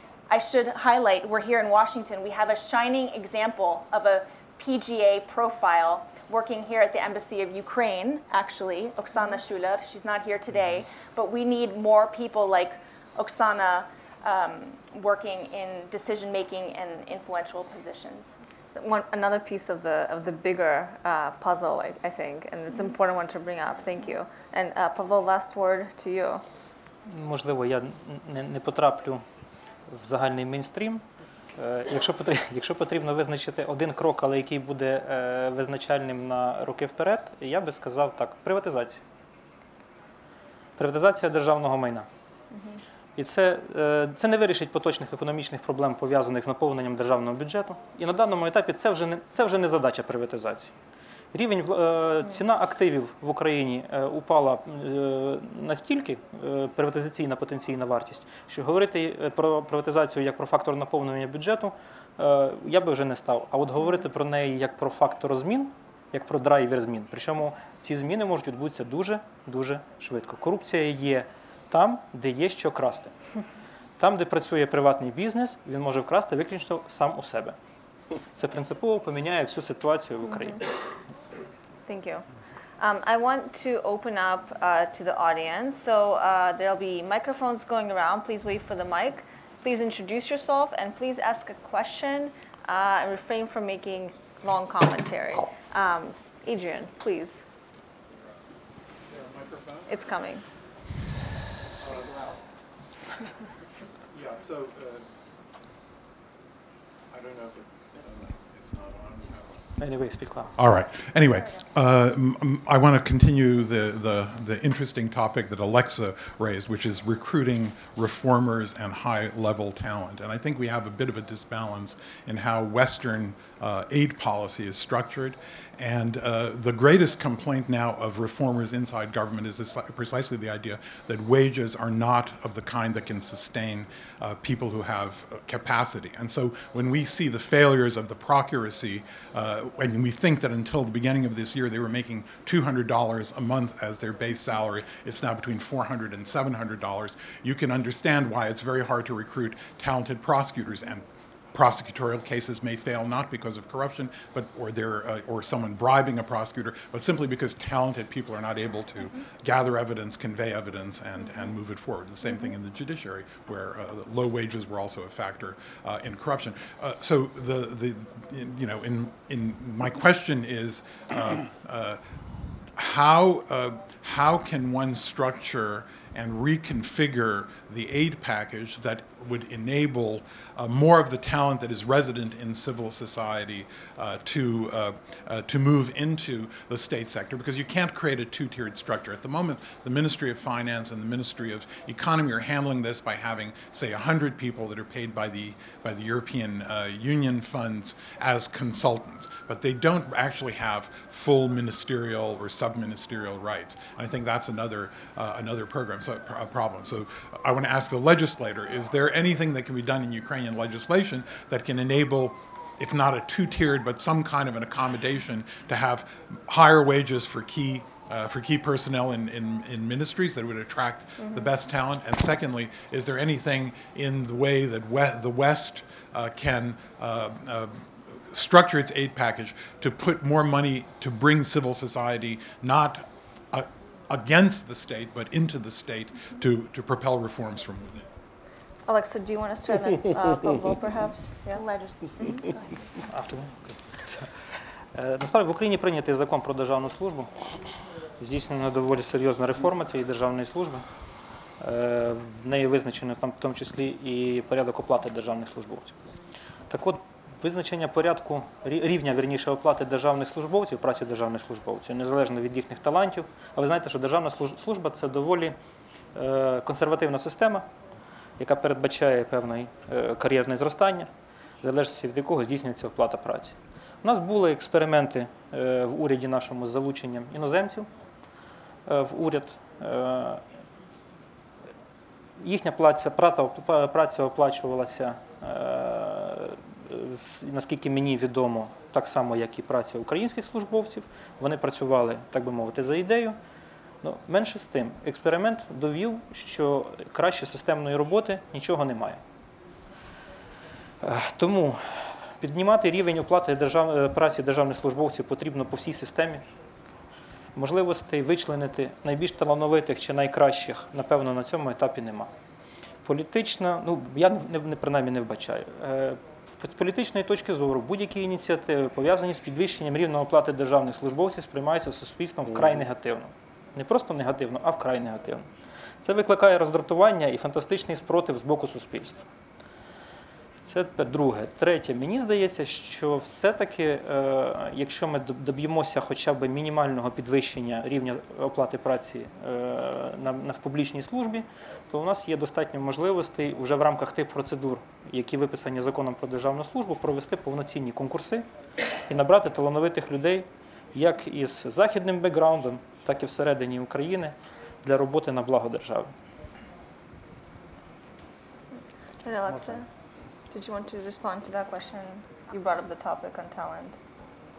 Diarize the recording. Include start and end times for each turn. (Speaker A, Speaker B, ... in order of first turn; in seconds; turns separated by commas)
Speaker A: 0.3-18.4, Speaker B: 18.7-26.4, Speaker C: 27.1-29.2, Speaker C: 29.9-31.0, Speaker C: 31.6-39.0, Speaker C: 40.8-42.1, Speaker B: 42.5-42.8, Speaker C: 43.1-50.7, Speaker C: 51.3-73.1, Speaker C: 74.0-77.5, Speaker C: 78.3-80.6, Speaker B: 80.3-80.5, Speaker B: 81.9-82.2, Speaker B: 82.8-97.4, Speaker D: 99.1-99.9, Speaker B: 99.9-100.4, Speaker D: 101.8-102.3, Speaker D: 104.1-105.0, Speaker D: 107.1-109.6, Speaker C: 109.8-110.5, Speaker D: 110.5-172.0, Speaker D: 172.8-238.0, Speaker B: 238.9-241.6, Speaker A: 241.5-242.6, Speaker C: 243.1-244.3, Speaker C: 244.9-247.3, Speaker C: 248.2-250.8, Speaker C: 251.6-256.0, Speaker C: 256.7-265.6, Speaker C: 266.1-267.6, Speaker C: 268.4-271.1, Speaker C: 271.6-277.9, Speaker C: 278.9-280.4, Speaker C: 282.4-293.4, Speaker C: 294.0-299.2, Speaker C: 301.0-301.8, Speaker C: 302.4-306.4, Speaker C: 307.5-312.3, Speaker C: 313.0-325.4, Speaker C: 326.0-329.2, Speaker C: 330.6-348.4, Speaker C: 349.1-356.1, Speaker B: 359.2-359.9, Speaker B: 360.5-364.0